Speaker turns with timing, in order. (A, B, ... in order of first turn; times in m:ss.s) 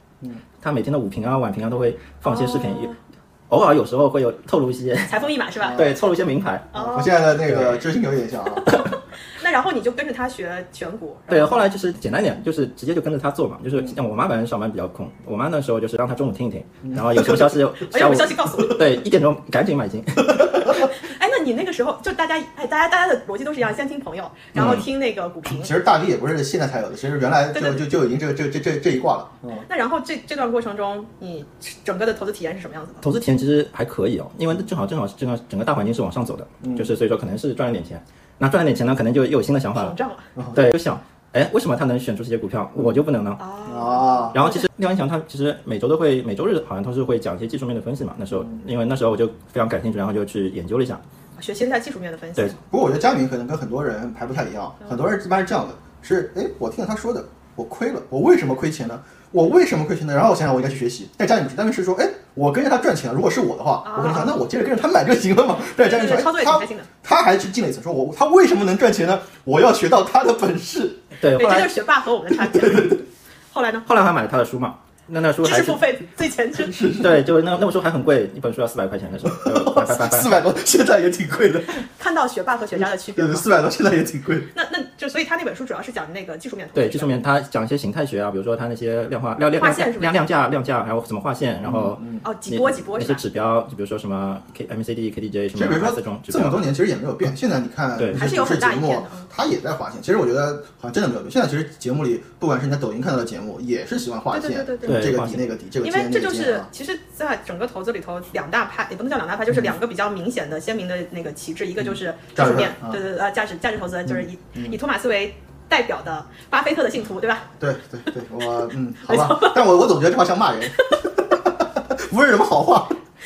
0:00.6-0:02.9 A
0:02.2-0:02.9 B
0:03.5-0:05.1 A
0:05.1-0:05.8 B
0:05.6-0:06.0 C
0:05.7-0:06.7 A
0:06.7-0:07.1 B
0:06.7-0:08.8 C
0:07.4-0:07.8 A
0:08.6-0:11.7 B
0:11.3-0:20.9 A
0:16.8-0:17.2 C
0:17.2-0:18.8 B
0:20.8-0:25.7 B
0:24.5-0:24.8 A
0:24.6-0:24.8 C
0:25.4-0:29.6 C
0:27.5-0:27.8 B
0:29.7-0:33.0 B
0:33.0-0:40.0 A
0:36.6-0:36.9 C
0:39.8-0:40.2 B
0:40.4-0:40.6 C
0:40.5-0:43.4 A
0:43.4-0:44.6 B
0:43.6-0:44.4 C
0:44.3-0:51.0 A
0:51.4-0:52.6 B
0:52.7-1:11.0 C
1:03.8-1:04.4 B
1:05.8-1:06.9 B
1:11.2-1:11.8 A
1:11.4-1:13.9 B
1:12.3-1:13.0 C
1:13.8-1:15.8 A
1:15.4-1:16.8 B
1:16.6-1:17.2 C
1:17.0-1:20.3 A
1:19.3-1:21.8 C
1:22.0-1:23.5 B
1:23.1-1:24.5 C
1:24.5-1:27.2 B
1:26.7-1:36.6 A
1:29.6-1:30.2 B
1:31.6-1:32.2 C
1:32.2-1:33.2 B
1:35.5-1:46.7 C
1:38.1-1:39.3 B
1:44.3-1:45.1 B
1:44.8-1:45.4 A
1:45.8-1:57.5 B
1:51.8-1:53.0 C
1:54.1-1:54.8 C
1:57.6-2:03.0 C
1:59.1-1:59.6 B